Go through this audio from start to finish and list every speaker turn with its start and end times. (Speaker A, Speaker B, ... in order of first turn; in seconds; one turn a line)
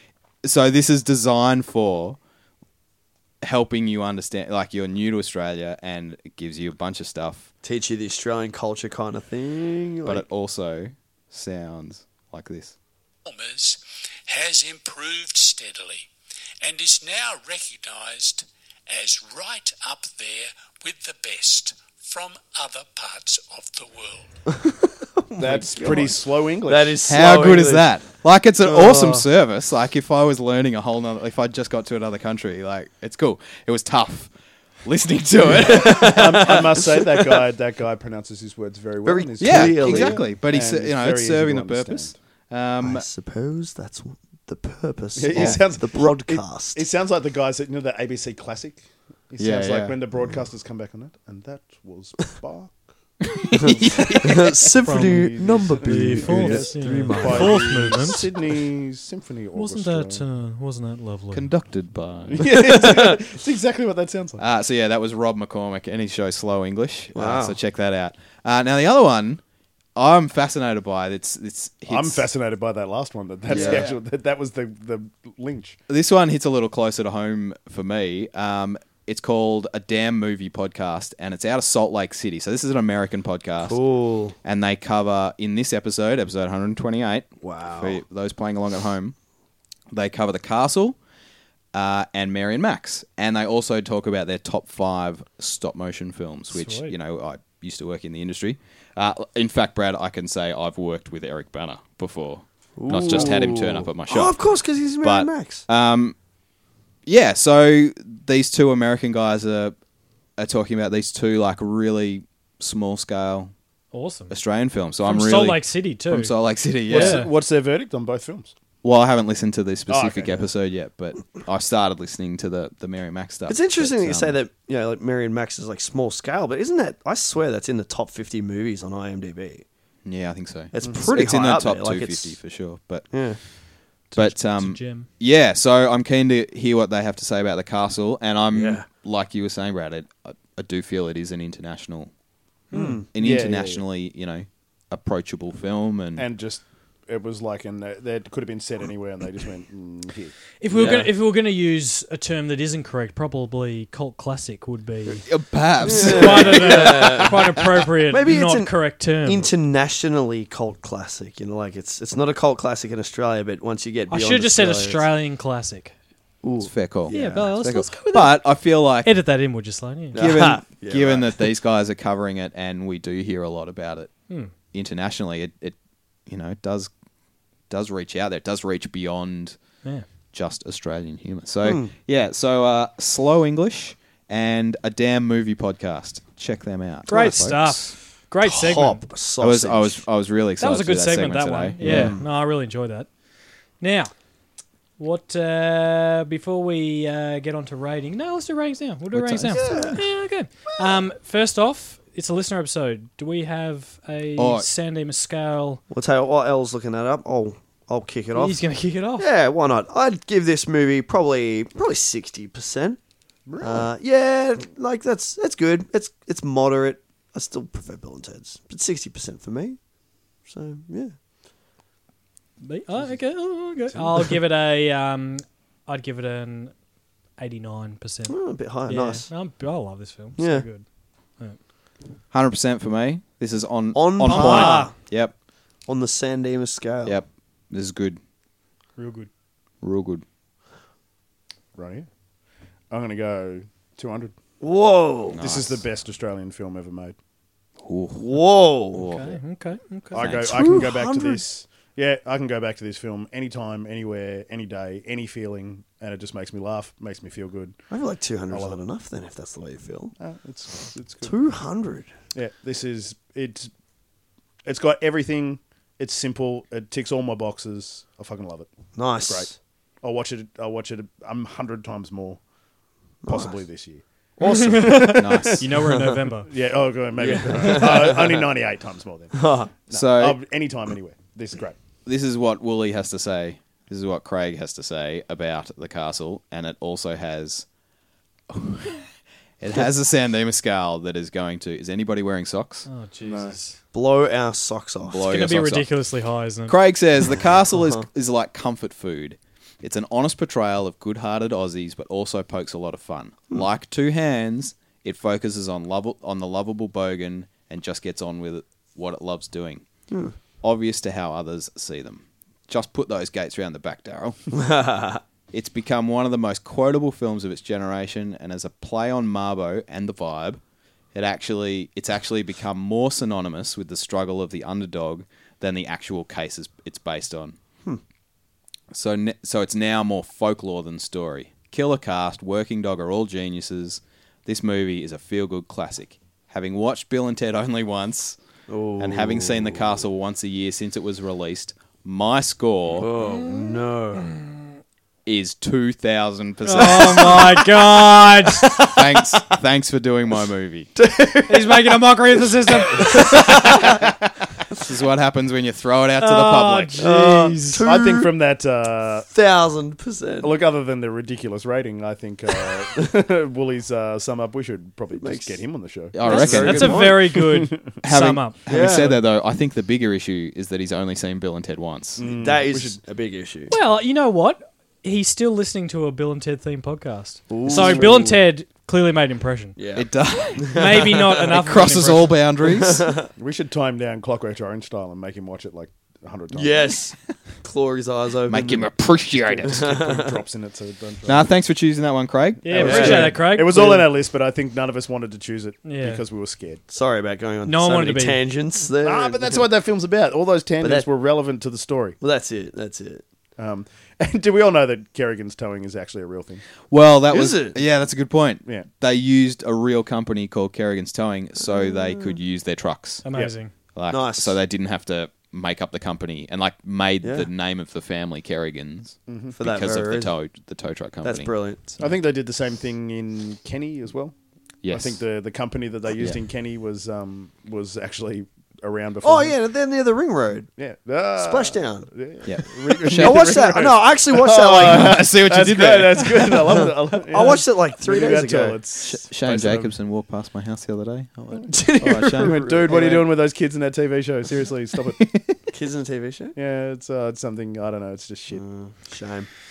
Speaker A: 0.4-2.2
Speaker A: 3.4-7.5
Speaker B: 7.6-10.2
Speaker A: 10.0-12.7
Speaker C: 13.2-16.1
Speaker C: 16.6-24.3
Speaker B: 24.5-27.9
Speaker D: 25.4-27.0
Speaker A: 27.1-34.3
Speaker B: 28.6-29.2
Speaker A: 34.8-36.6
Speaker B: 35.5-37.1
Speaker D: 35.9-42.1
Speaker B: 39.0-40.2
Speaker A: 39.4-43.1
Speaker B: 42.8-46.8
Speaker D: 45.1-52.7
Speaker A: 45.3-45.6
Speaker A: 49.4-50.0
Speaker A: 53.3-54.8
Speaker B: 53.6-58.0
Speaker D: 53.8-54.1
Speaker E: 54.9-58.3
Speaker D: 54.9-60.2
Speaker E: 59.5-61.5
Speaker A: 61.3-62.8
Speaker D: 62.3-64.4
Speaker B: 62.7-63.2
Speaker A: 64.4-69.4
Speaker B: 67.1-67.6
Speaker A: 69.9-72.3
Speaker D: 71.9-75.8
Speaker B: 73.5-73.9
Speaker A: 73.5-73.9
Speaker A: 75.9-83.8
Speaker B: 83.6-84.4
Speaker A: 84.4-89.1
Speaker B: 87.4-88.0
Speaker A: 89.9-91.0
Speaker A: 91.7-104.4
Speaker E: 96.5-96.9
Speaker B: 102.8-105.6
Speaker A: 105.0-106.2
Speaker A: 107.0-109.7
Speaker A: 110.4-113.5
Speaker E: 113.9-114.3
Speaker A: 114.3-117.2
Speaker E: 115.0-116.3
Speaker E: 116.9-117.3
Speaker D: 116.9-118.5
Speaker A: 118.8-124.4
Speaker D: 119.9-120.5
Speaker B: 123.5-129.6
Speaker A: 130.0-133.6
Speaker B: 130.7-132.4
Speaker B: 133.1-133.4
Speaker E: 134.1-135.1
Speaker A: 134.1-142.1
Speaker B: 138.5-138.9
Speaker E: 142.7-143.0
Speaker B: 142.7-143.1
Speaker A: 143.1-146.2
Speaker D: 143.1-143.8
Speaker D: 146.2-150.3
Speaker E: 150.6-159.5
Speaker B: 150.7-151.1
Speaker A: 155.2-157.6
Speaker B: 155.8-157.3
Speaker B: 158.1-165.0
Speaker E: 164.1-165.9
Speaker B: 166.4-167.5
Speaker A: 166.6-169.1
Speaker E: 167.1-170.2
Speaker B: 170.1-171.5
Speaker A: 170.1-174.1
Speaker A: 174.7-176.9
Speaker A: 177.7-179.6
Speaker A: 180.3-187.9
Speaker B: 187.1-187.4
Speaker E: 187.1-189.0
Speaker B: 188.4-190.0
Speaker A: 189.4-192.2
Speaker E: 190.6-193.1
Speaker D: 191.8-192.2
Speaker E: 193.8-194.1
Speaker E: 195.0-205.8
Speaker A: 199.1-199.7
Speaker B: 199.5-200.0
Speaker A: 204.4-204.7
Speaker B: 205.9-208.6
Speaker E: 208.3-209.3
Speaker B: 209.2-213.0
Speaker D: 213.5-213.9
Speaker B: 213.6-219.8
Speaker B: 220.4-221.1
Speaker E: 222.6-226.7
Speaker E: 227.4-230.8
Speaker B: 228.3-229.3
Speaker B: 230.4-230.7
Speaker A: 232.3-235.3
Speaker B: 233.9-234.9
Speaker E: 234.2-234.9
Speaker B: 235.8-237.2
Speaker A: 237.0-238.2
Speaker E: 239.0-239.3
Speaker A: 239.8-240.2
Speaker D: 241.8-242.1
Speaker D: 242.9-244.3
Speaker B: 244.6-245.4
Speaker A: 245.3-245.8
Speaker D: 245.4-247.2
Speaker A: 247.8-248.3
Speaker B: 248.2-249.0
Speaker A: 248.9-249.4
Speaker E: 248.9-250.2
Speaker D: 250.1-257.8
Speaker A: 250.2-250.7
Speaker B: 250.4-251.4
Speaker B: 257.9-260.1
Speaker D: 258.5-258.8
Speaker D: 260.2-261.4
Speaker B: 261.2-262.1
Speaker D: 262.3-263.7
Speaker D: 264.6-268.7
Speaker B: 268.9-269.5
Speaker D: 270.0-272.4
Speaker B: 273.2-273.5
Speaker D: 273.2-275.8
Speaker E: 274.5-276.5
Speaker A: 275.1-275.7
Speaker D: 276.4-281.8
Speaker B: 277.2-278.4
Speaker B: 279.4-279.7
Speaker A: 279.9-280.4
Speaker A: 282.1-287.6
Speaker A: 288.5-289.1
Speaker A: 289.6-292.9
Speaker E: 292.9-293.8
Speaker D: 293.2-293.6
Speaker B: 293.9-295.3
Speaker A: 295.0-295.9
Speaker E: 295.3-296.7
Speaker A: 296.7-309.8
Speaker B: 297.7-298.0
Speaker B: 310.1-310.3
Speaker A: 310.6-314.6
Speaker B: 314.6-315.2
Speaker A: 315.5-320.6
Speaker A: 321.1-327.6
Speaker A: 328.9-338.4
Speaker B: 338.7-340.0
Speaker A: 339.0-343.1
Speaker B: 343.0-344.3
Speaker E: 343.2-344.6
Speaker A: 345.2-347.6
Speaker E: 346.6-348.9
Speaker B: 347.0-349.0
Speaker A: 348.9-350.9
Speaker B: 350.9-353.9
Speaker E: 351.5-353.7
Speaker A: 353.3-354.0
Speaker A: 354.7-357.0
Speaker E: 356.2-357.8
Speaker B: 357.0-358.3
Speaker D: 357.8-359.3
Speaker B: 359.3-360.5
Speaker D: 360.4-367.9
Speaker B: 365.2-365.6
Speaker A: 366.1-367.1
Speaker B: 366.2-367.2
Speaker E: 366.3-368.6
Speaker A: 368.0-372.2
Speaker B: 368.6-369.1
Speaker D: 368.8-369.2
Speaker D: 372.2-373.0
Speaker B: 372.2-373.7
Speaker E: 373.7-379.8
Speaker B: 377.5-378.4
Speaker D: 377.7-378.1
Speaker B: 379.8-381.4
Speaker A: 379.9-383.1
Speaker E: 380.7-382.4
Speaker B: 382.8-383.3
Speaker D: 383.4-386.9
Speaker B: 386.5-388.8
Speaker A: 388.5-389.9
Speaker D: 389.4-391.4
Speaker B: 389.7-390.3
Speaker A: 391.2-393.3
Speaker E: 392.6-394.0
Speaker D: 392.7-396.8
Speaker B: 392.8-393.9
Speaker E: 395.8-396.2
Speaker B: 396.9-399.6
Speaker E: 397.6-398.4
Speaker D: 399.0-402.2
Speaker B: 402.2-403.2
Speaker D: 403.6-406.6
Speaker A: 406.9-413.2
Speaker B: 407.3-407.8
Speaker B: 411.7-412.4
Speaker E: 413.2-413.7
Speaker A: 413.9-422.2
Speaker B: 414.1-414.6
Speaker B: 417.2-417.5
Speaker D: 419.3-419.6
Speaker B: 419.6-420.3
Speaker B: 421.2-421.8
Speaker D: 422.0-424.3
Speaker A: 424.8-425.2
Speaker D: 424.9-429.5
Speaker B: 429.2-430.7
Speaker D: 430.8-439.9
Speaker B: 431.4-432.1
Speaker A: 432.4-433.7
Speaker B: 433.1-435.2
Speaker A: 434.6-436.9
Speaker B: 437.3-438.8
Speaker A: 439.0-442.6
Speaker B: 441.7-443.3
Speaker D: 442.3-445.2
Speaker A: 445.2-445.6
Speaker B: 445.7-446.6
Speaker D: 446.6-448.6
Speaker B: 448.5-449.5